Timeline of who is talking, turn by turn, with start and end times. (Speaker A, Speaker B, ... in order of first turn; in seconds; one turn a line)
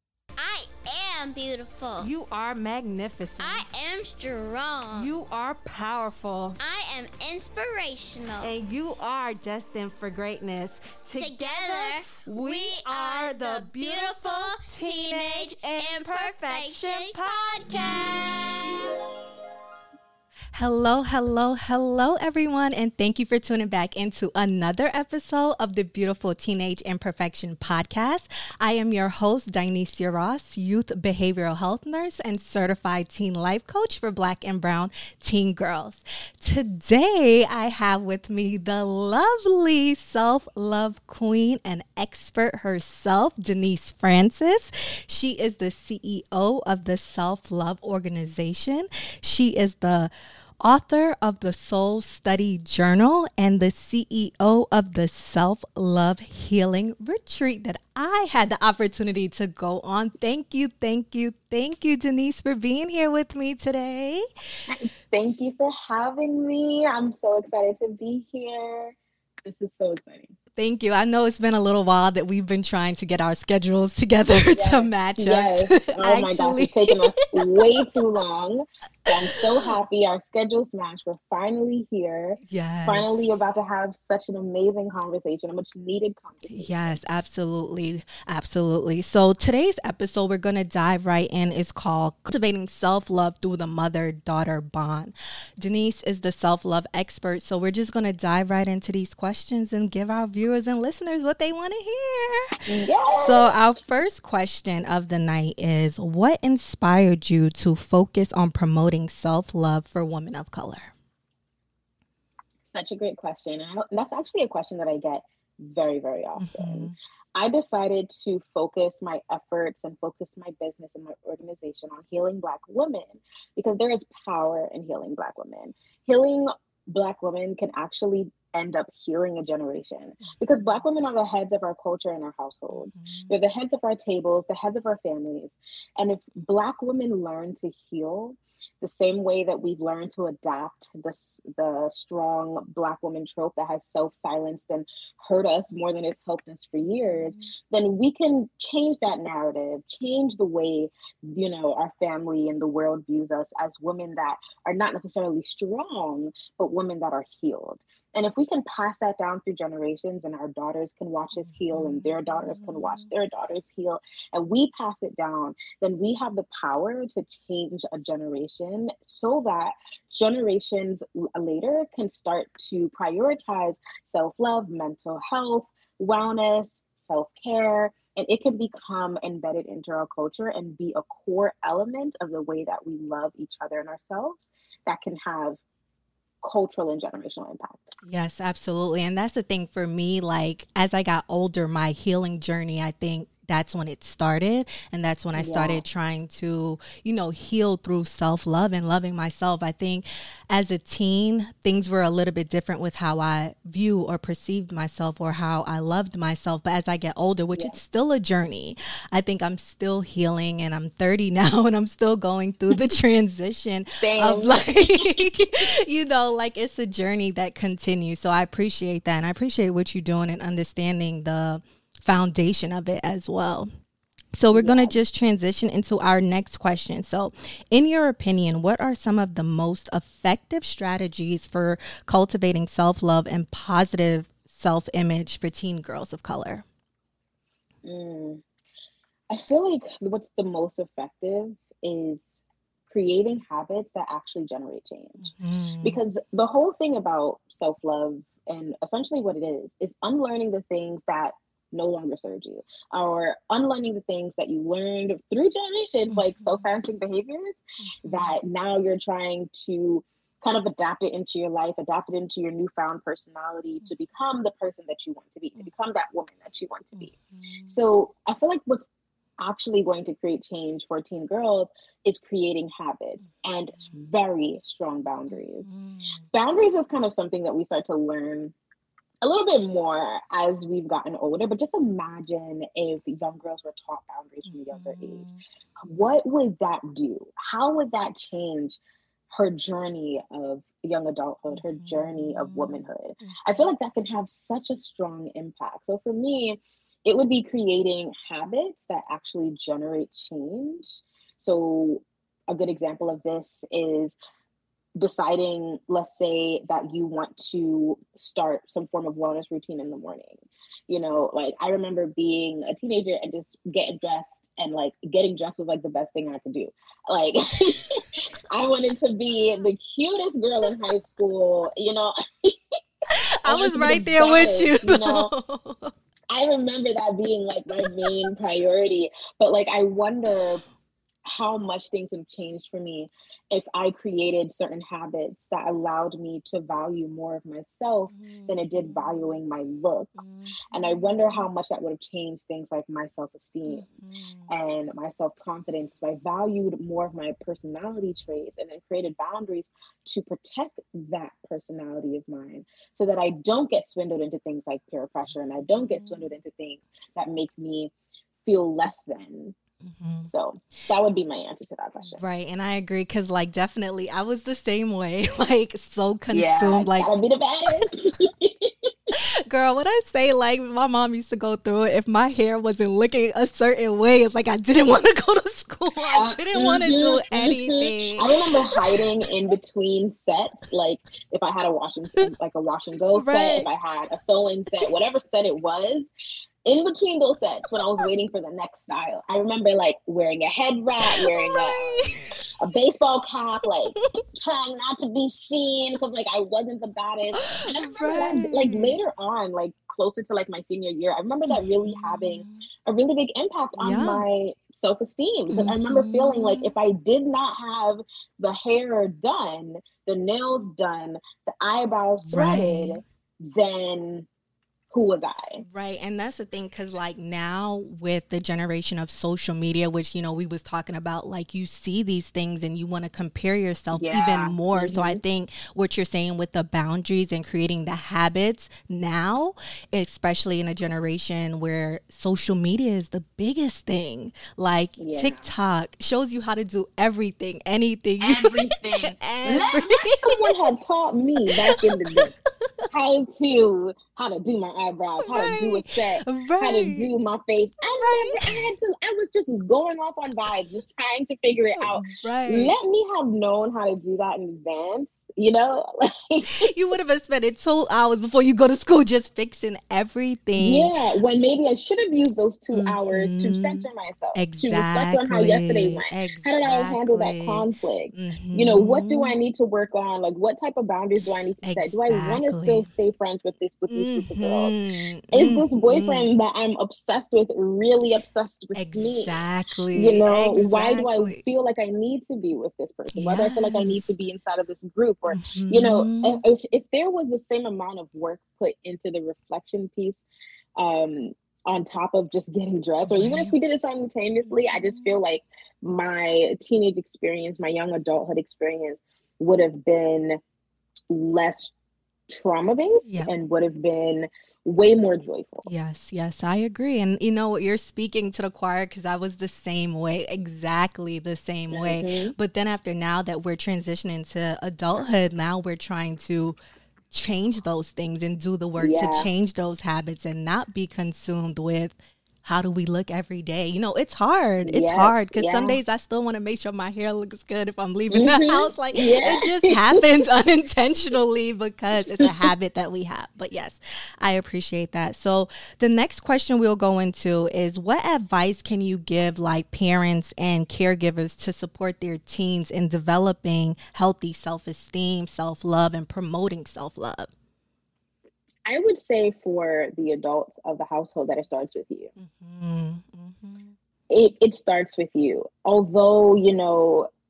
Speaker A: 0.4-2.1
Speaker B: 2.0-3.6
Speaker A: 3.4-5.1
Speaker B: 4.9-6.6
Speaker A: 6.6-8.6
Speaker B: 8.4-17.2
Speaker A: 11.2-18.5
Speaker B: 20.5-64.2
Speaker C: 64.7-70.3
Speaker B: 70.6-77.8
Speaker C: 74.5-87.0
Speaker B: 82.4-83.3
Speaker B: 86.5-102.6
Speaker C: 102.7-103.5
Speaker B: 103.1-110.9
Speaker C: 112.6-185.6
Speaker B: 116.4-116.9
Speaker B: 132.7-133.3
Speaker B: 161.5-163.1
Speaker C: 186.4-187.9
Speaker B: 188.0-223.7
Speaker C: 195.3-195.8
Speaker C: 214.0-215.3
Speaker B: 224.3-236.6
Speaker C: 224.5-224.9
Speaker C: 237.8-238.4
Speaker C: 239.3-242.4
Speaker C: 242.9-245.3
Speaker B: 245.2-246.0
Speaker C: 245.8-267.1
Speaker B: 256.1-256.6
Speaker B: 257.8-258.3
Speaker B: 266.9-267.8
Speaker C: 267.7-275.7
Speaker B: 275.6-276.2
Speaker C: 276.3-278.5
Speaker C: 279.2-285.2
Speaker B: 284.5-285.4
Speaker C: 285.8-288.8
Speaker C: 289.3-304.1
Speaker B: 291.5-293.4
Speaker C: 304.9-322.6
Speaker B: 323.1-325.9
Speaker C: 323.4-325.3
Speaker C: 326.3-330.6
Speaker C: 331.2-343.8
Speaker B: 338.1-339.1
Speaker B: 340.2-341.1
Speaker B: 343.6-344.5
Speaker C: 344.5-357.9
Speaker C: 358.4-359.6
Speaker B: 359.8-360.3
Speaker C: 360.2-362.2
Speaker B: 362.1-367.1
Speaker C: 366.3-369.1
Speaker B: 369.1-379.1
Speaker C: 376.1-386.1
Speaker B: 383.1-383.7
Speaker C: 386.6-414.3
Speaker B: 391.1-392.3
Speaker B: 397.4-399.0
Speaker B: 401.5-402.6
Speaker B: 403.8-404.2
Speaker B: 405.5-406.7
Speaker B: 412.3-413.0
Speaker C: 414.9-415.6
Speaker B: 415.6-440.7
Speaker C: 423.9-425.2
Speaker C: 435.0-435.5
Speaker C: 438.2-442.3
Speaker B: 441.5-442.3
Speaker C: 442.9-456.7
Speaker B: 445.2-447.1
Speaker B: 447.9-448.7
Speaker B: 451.8-452.8
Speaker B: 456.5-460.9
Speaker C: 460.6-474.7
Speaker B: 462.7-469.3
Speaker B: 471.6-472.9
Speaker B: 473.9-476.3
Speaker C: 475.3-479.3
Speaker B: 478.7-481.4
Speaker C: 479.9-490.2
Speaker B: 483.1-484.1
Speaker B: 485.3-486.4
Speaker C: 490.8-500.4
Speaker B: 493.1-493.5
Speaker B: 494.8-495.1
Speaker C: 501.1-501.7
Speaker C: 502.3-505.7
Speaker B: 505.7-516.6
Speaker C: 511.7-512.3
Speaker B: 517.1-547.3
Speaker C: 518.8-519.3
Speaker C: 524.6-525.8
Speaker C: 528.1-530.0
Speaker C: 548.7-552.1
Speaker B: 552.2-553.8
Speaker C: 554.1-557.1